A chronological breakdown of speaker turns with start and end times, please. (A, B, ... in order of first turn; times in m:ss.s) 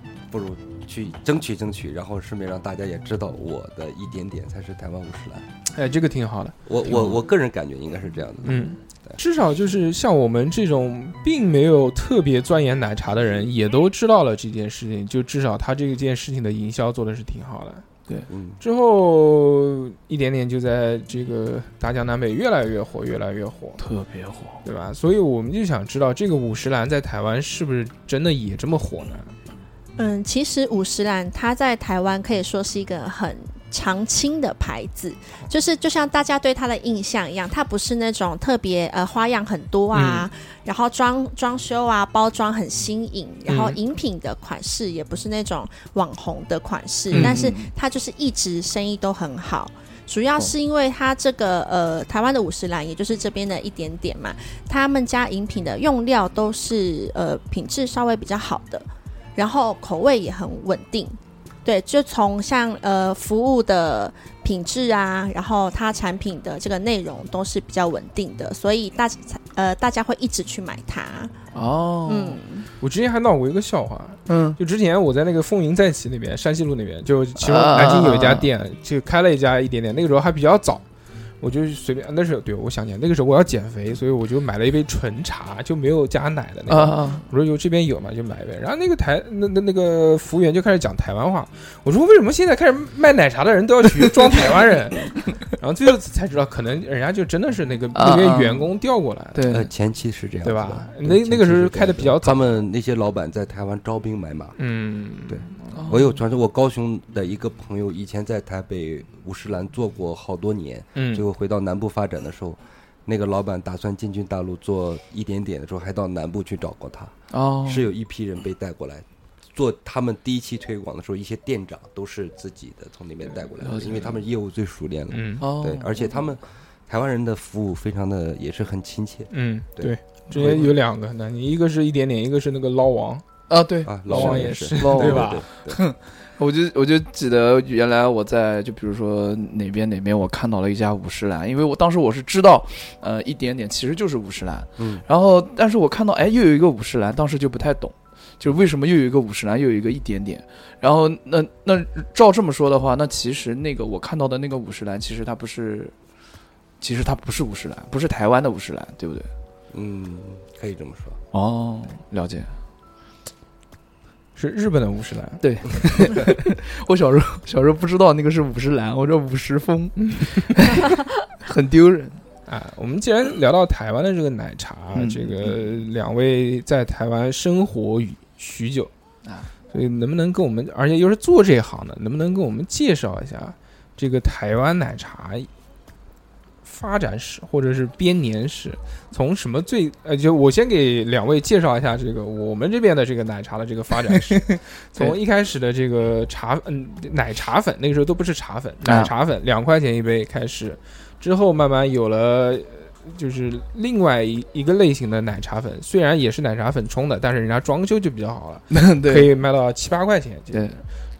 0:00.3-0:05.5 A
0:05.7-0:07.2 B
0:06.7-0:09.2 A
0:08.5-0:17.9 B
0:18.3-0:18.6 A
0:18.6-0:23.8 B
0:23.8-0:24.6 C
0:24.6-0:29.3 B
0:30.0-1:11.3 D
0:39.9-0:40.3 B
0:43.5-0:43.8 B
0:47.1-0:47.4 B
0:47.1-0:47.7 C
1:11.5-1:12.4 C
1:12.1-1:12.7 D
1:12.8-1:20.8 B
1:14.3-1:14.6 C
1:17.4-1:18.5 C
1:21.4-1:39.6 B
1:26.7-1:27.3 C
1:34.3-1:34.5 C
1:38.0-1:38.7 C
1:39.4-1:39.7 C
1:39.5-1:44.6 A
1:40.4-1:42.6 B
1:44.6-1:45.9 B
1:45.3-2:10.7 A
1:45.7-1:46.2 C
1:51.0-1:51.3 B
1:57.3-1:57.9 C
2:03.6-2:04.2 C
2:05.1-2:05.5 B
2:05.4-2:06.2 C
2:09.3-2:13.2 B
2:10.3-2:10.7 C
2:13.5-2:35.9 C
2:13.8-2:15.8 A
2:14.1-2:15.4 B
2:24.8-2:25.0 A
2:36.8-2:39.3 C
2:39.7-2:41.2 A
2:41.3-2:42.5 C
2:44.4-2:46.2 B
2:45.4-2:52.2 C
2:50.0-2:50.3 B
2:52.5-2:58.9 B
2:55.0-2:55.6 C
2:59.7-3:05.5 B
3:06.6-3:30.8 B
3:14.1-3:15.2 C
3:18.8-3:19.1 C
3:28.7-3:29.3 C
3:30.5-3:30.8 C